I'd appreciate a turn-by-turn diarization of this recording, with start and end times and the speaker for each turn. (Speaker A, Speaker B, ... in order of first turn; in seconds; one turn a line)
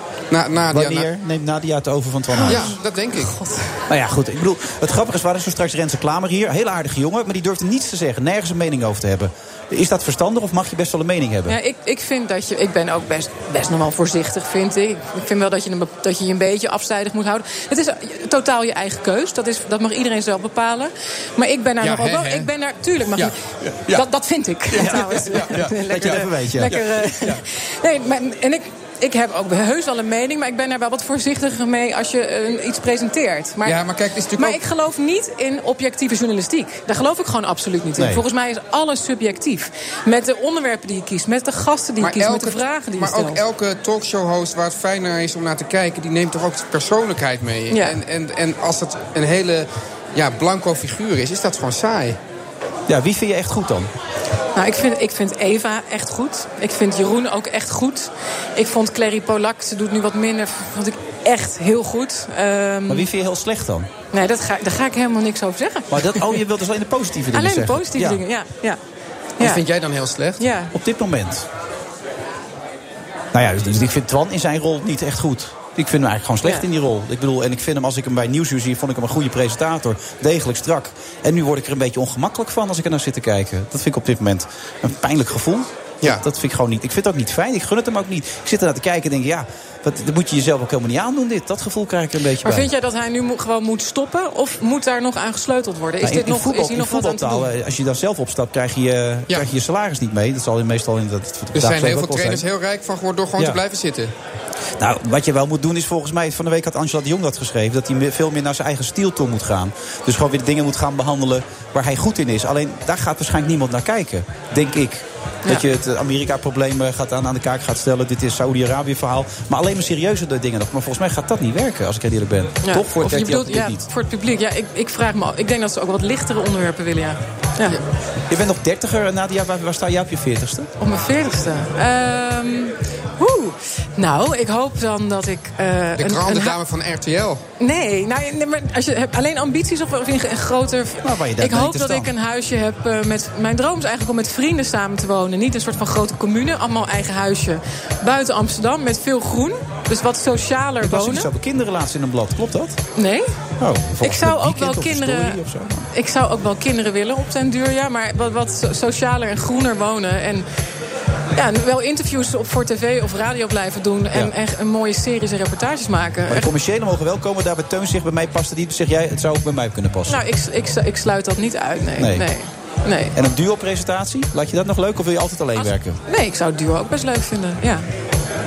Speaker A: 0.3-1.1
Speaker B: 0.7-2.7
Speaker A: 2.4-3.3
Speaker B: 3.9-11.6
Speaker C: 11.5-33.8
Speaker A: 21.8-22.5
Speaker B: 24.7-26.9
Speaker A: 33.6-34.6
Speaker C: 34.3-43.4
Speaker B: 38.0-38.2
Speaker A: 42.0-52.2
Speaker C: 47.7-48.0
Speaker B: 52.9-53.9
Speaker C: 54.5-63.1
Speaker B: 62.9-63.9
Speaker C: 64.1-66.4
Speaker B: 65.9-68.2
Speaker C: 67.3-68.8
Speaker A: 69.4-70.5
Speaker C: 70.4-70.7
Speaker B: 70.7-71.5
Speaker B: 73.3-92.7
Speaker C: 92.4-97.5
Speaker B: 96.0-102.4
Speaker A: 101.5-104.1
Speaker B: 104.8-123.8
Speaker C: 122.6-127.8
Speaker B: 128.3-130.7
Speaker C: 130.8-136.6
Speaker A: 135.9-137.4
Speaker C: 137.6-151.3
Speaker B: 141.0-142.1
Speaker B: 150.8-152.8
Speaker C: 152.9-153.3
Speaker B: 153.6-155.9
Speaker C: 154.0-155.4
Speaker C: 155.9-160.4
Speaker C: 161.3-166.5
Speaker B: 166.3-170.2
Speaker C: 170.1-173.1
Speaker B: 172.0-172.3
Speaker B: 173.1-176.0
Speaker C: 175.6-177.8